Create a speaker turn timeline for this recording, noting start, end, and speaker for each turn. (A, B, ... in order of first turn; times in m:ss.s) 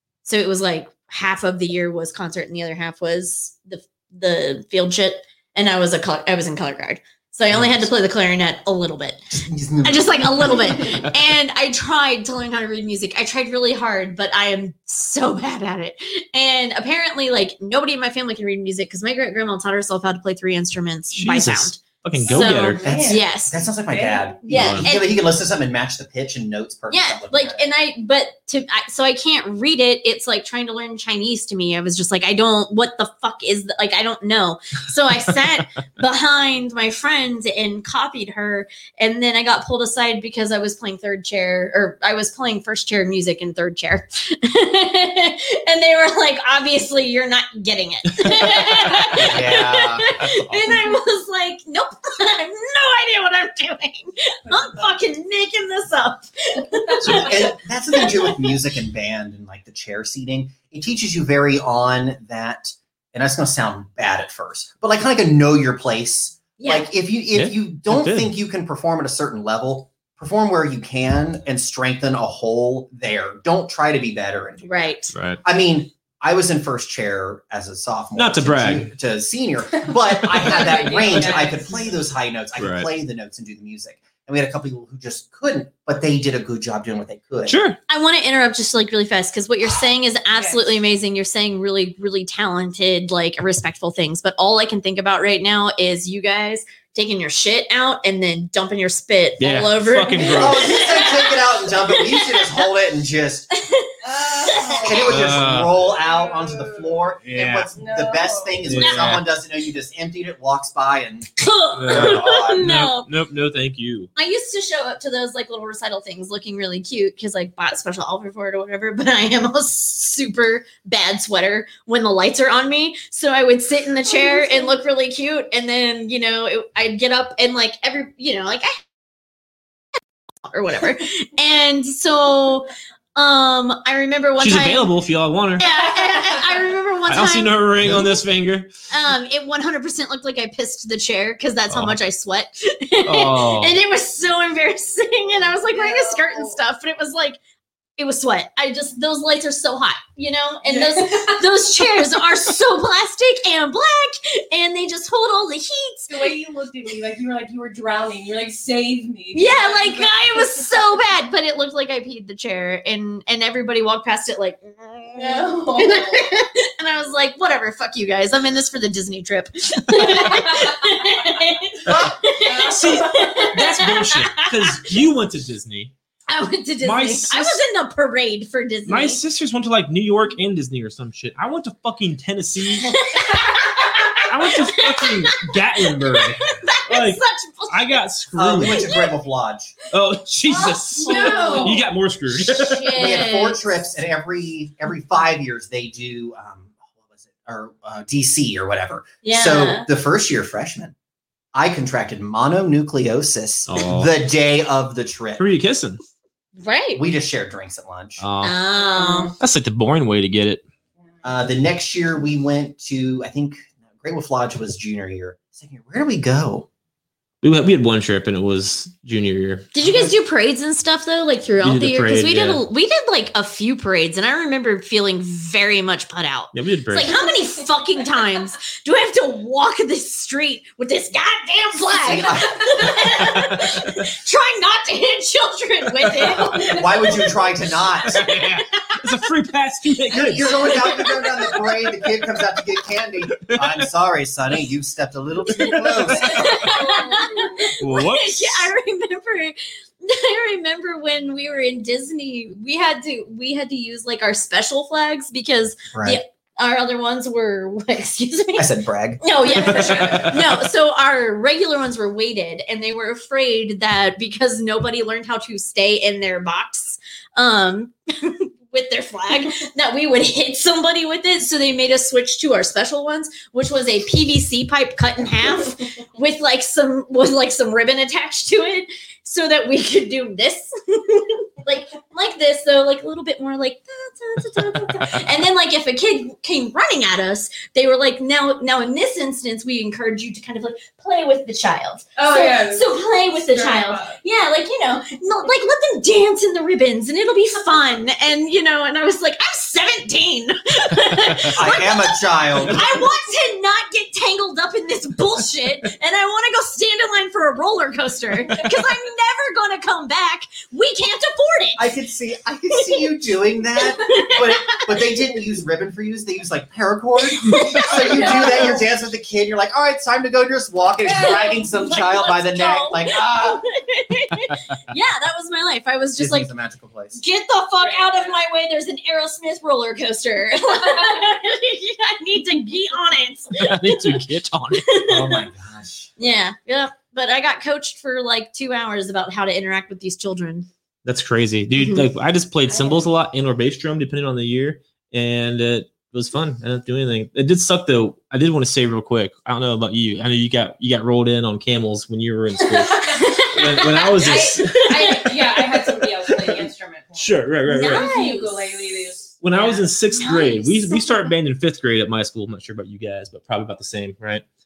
0:00.2-0:09.3 A
0:07.5-0:07.9 B
0:09.3-0:11.0 B
0:09.8-0:23.6 A
0:21.1-0:22.9 C
0:22.3-0:23.3 D
0:22.8-0:27.6 B
0:23.9-0:24.4 D
0:24.4-0:25.1 A
0:24.5-0:24.9 C
0:26.9-0:58.5 A
0:48.2-0:49.2 C
0:49.1-0:50.4 B
0:54.5-0:54.9 D
0:57.0-1:27.6 B
1:06.6-1:06.9 A
1:07.3-1:08.3 C
1:14.6-1:15.1 A
1:15.1-1:15.4 C
1:18.2-1:18.9 C
1:20.2-1:20.7 C
1:20.3-1:22.0 D
1:22.6-1:22.9 C
1:27.5-1:27.8 C
1:27.9-1:42.6 A
1:30.3-1:30.7 D
1:39.4-1:40.8 C
1:40.2-1:41.1 D
1:40.4-1:43.5 B
1:43.6-1:45.1 A
1:44.0-1:47.1 D
1:44.8-1:51.3 B
1:45.0-1:45.8 C
1:47.2-1:47.7 C
1:47.8-1:48.7 D
1:48.6-1:49.2 C
1:48.8-1:49.2 A
1:51.4-1:53.1 A
1:51.8-1:54.1 C
1:51.9-1:52.6 B
1:54.2-2:08.8 A
2:04.1-2:04.7 D
2:10.5-2:14.9 A
2:14.4-2:15.6 C
2:15.6-2:18.0 A
2:17.1-2:18.7 C
2:18.9-2:27.4 A
2:21.7-2:22.0 C
2:23.0-2:23.8 C
2:25.7-2:26.6 D
2:28.0-2:36.4 A
2:30.6-2:31.4 D
2:36.1-2:40.7 D
2:39.3-2:54.9 A
2:45.2-2:46.2 D
2:52.4-2:53.5 D
2:52.6-2:55.9 C
2:56.3-2:59.2 A
2:56.8-2:57.6 C
2:58.9-3:02.9 C
3:02.8-3:08.0 A
3:04.2-3:08.9 C
3:08.4-3:09.8 B
3:08.6-3:09.1 A
3:09.9-3:13.1 C
3:10.5-3:11.8 D
3:11.0-3:11.8 A
3:12.4-3:13.6 A
3:12.9-3:20.9 B
3:19.2-3:19.9 A
3:21.5-3:25.4 B
3:23.7-3:24.1 C
3:25.4-3:26.0 C
3:26.6-3:27.0 A
3:26.9-3:28.2 B
3:28.2-3:28.6 C
3:28.4-3:29.4 A
3:28.9-3:29.4 D
3:29.4-3:30.6 C
3:31.2-3:36.7 B
3:37.4-3:39.7 C
3:39.7-3:57.3 A
3:41.6-3:42.6 C
3:46.5-3:47.1 C
3:51.9-3:53.1 B
3:53.2-3:54.0 C
3:56.6-3:58.2 B
3:58.0-4:00.8 C
3:58.2-3:59.0 A
4:00.1-4:06.6 B
4:00.5-4:01.3 A
4:03.4-4:03.9 C
4:05.5-4:06.7 C
4:06.2-4:18.7 A
4:06.5-4:07.7 D
4:07.8-4:08.7 C
4:15.9-4:16.2 B
4:18.6-4:19.2 B
4:19.2-5:11.9 A
4:19.5-4:20.3 D
4:19.5-4:20.4 C
4:52.2-4:52.9 D
4:53.5-4:54.2 D
5:01.5-5:03.0 B
5:11.8-5:23.6 B
5:13.8-5:15.0 A
5:17.3-5:18.8 A
5:18.2-5:18.6 D
5:21.1-5:21.8 D
5:21.1-5:26.5 A
5:26.2-5:27.2 B
5:27.2-5:34.1 A
5:27.8-5:28.4 D
5:33.6-5:34.9 C
5:34.9-5:35.5 A
5:35.1-5:36.1 B
5:36.2-5:40.7 A
5:41.0-5:58.1 C
5:41.8-5:42.1 A
5:42.7-5:43.1 D
5:52.8-5:53.2 D
5:53.0-5:55.3 A
5:54.1-5:59.8 D
5:57.7-6:01.3 A
5:59.4-6:04.4 C